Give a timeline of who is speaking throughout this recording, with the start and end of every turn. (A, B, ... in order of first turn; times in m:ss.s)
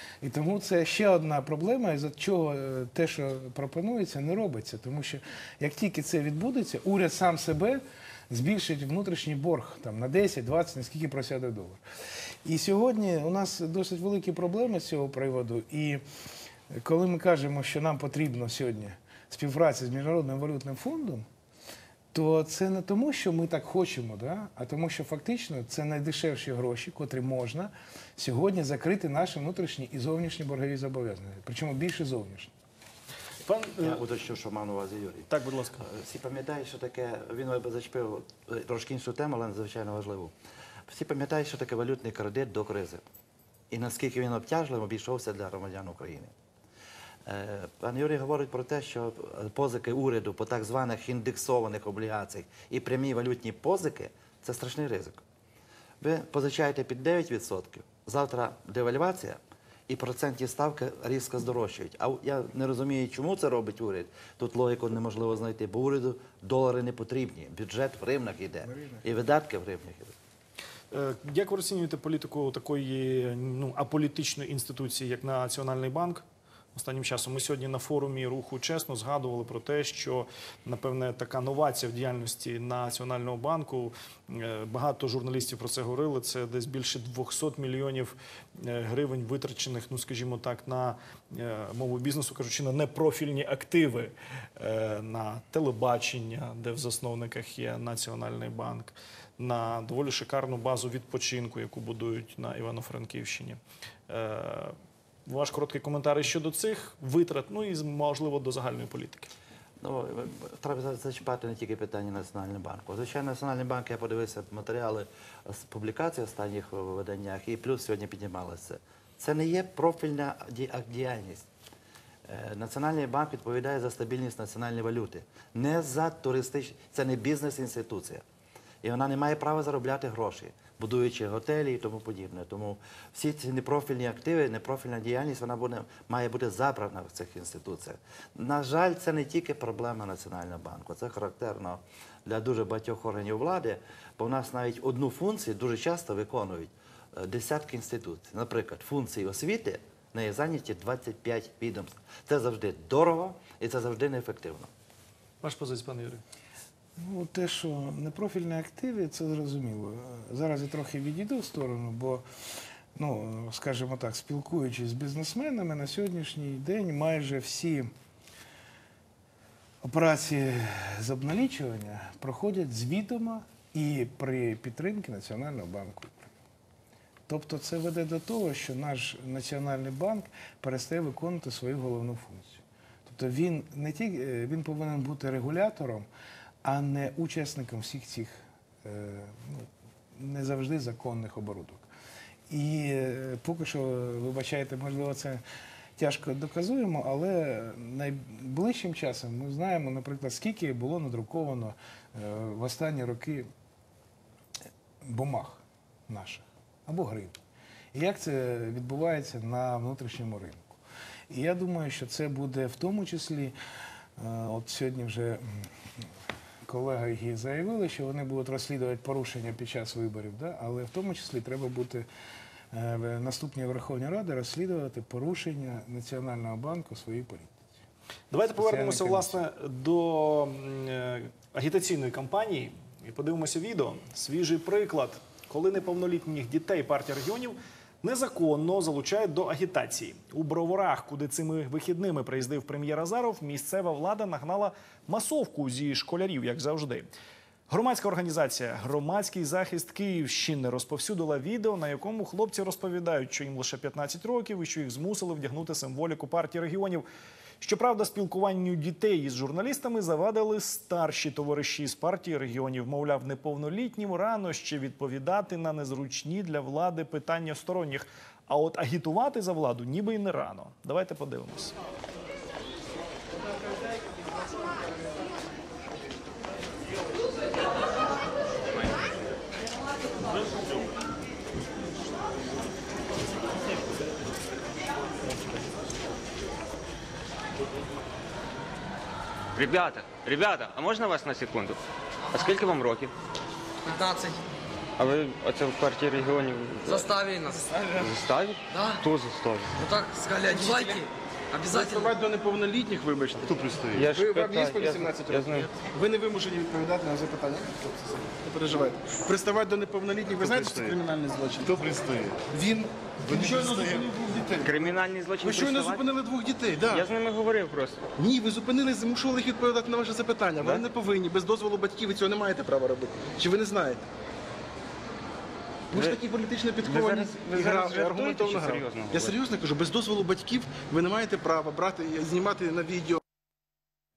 0:00.2-0:11.8 A
0:12.4-0:16.0 A
0:16.7-0:21.3 A
0:22.1-0:32.5 A
0:33.4-0:34.0 B
0:33.8-0:40.3 C
0:35.3-0:35.8 B
0:40.9-0:43.0 C
0:43.7-0:46.3 C
0:47.3-0:55.2 C
0:56.0-1:10.2 C
1:10.9-1:44.8 B
1:45.3-1:49.3 B
1:49.8-2:01.5 C
2:02.3-2:08.2 C
2:08.8-2:34.7 C
2:35.4-2:36.2 B
2:37.0-2:42.2 A
2:43.0-2:47.9 A
2:49.8-2:56.3 A
2:57.3-3:06.1 A
3:06.6-3:11.9 A
3:12.5-3:15.4 A
3:16.0-3:23.5 A
3:25.0-3:27.4 A
3:27.9-3:30.8 A
3:31.3-3:33.6 A
3:34.2-3:35.7 A
3:36.7-3:42.1 A
3:42.7-3:47.7 A
3:48.3-4:07.1 B
3:48.6-3:49.4 A
4:07.7-4:17.0 B
4:17.6-4:31.8 B
4:49.6-4:51.8 D
4:52.3-4:53.1 D
4:53.8-4:54.4 E
4:55.0-4:57.1 D
4:56.9-4:57.7 E
4:57.7-4:58.1 F
4:58.0-4:59.8 D
4:58.7-4:59.0 E
4:59.7-5:02.1 E
5:00.6-5:01.0 F
5:01.7-5:03.5 F
5:03.4-5:04.1 G
5:03.9-5:05.7 D
5:04.1-5:11.7 F
5:10.3-5:11.0 G
5:11.6-5:12.5 G
5:12.5-5:17.1 F
5:13.2-5:14.1 G
5:14.6-5:16.0 D
5:16.9-5:18.0 D
5:18.2-5:24.0 F
5:25.9-5:33.2 F
5:25.9-5:26.2 D
5:26.8-5:29.4 D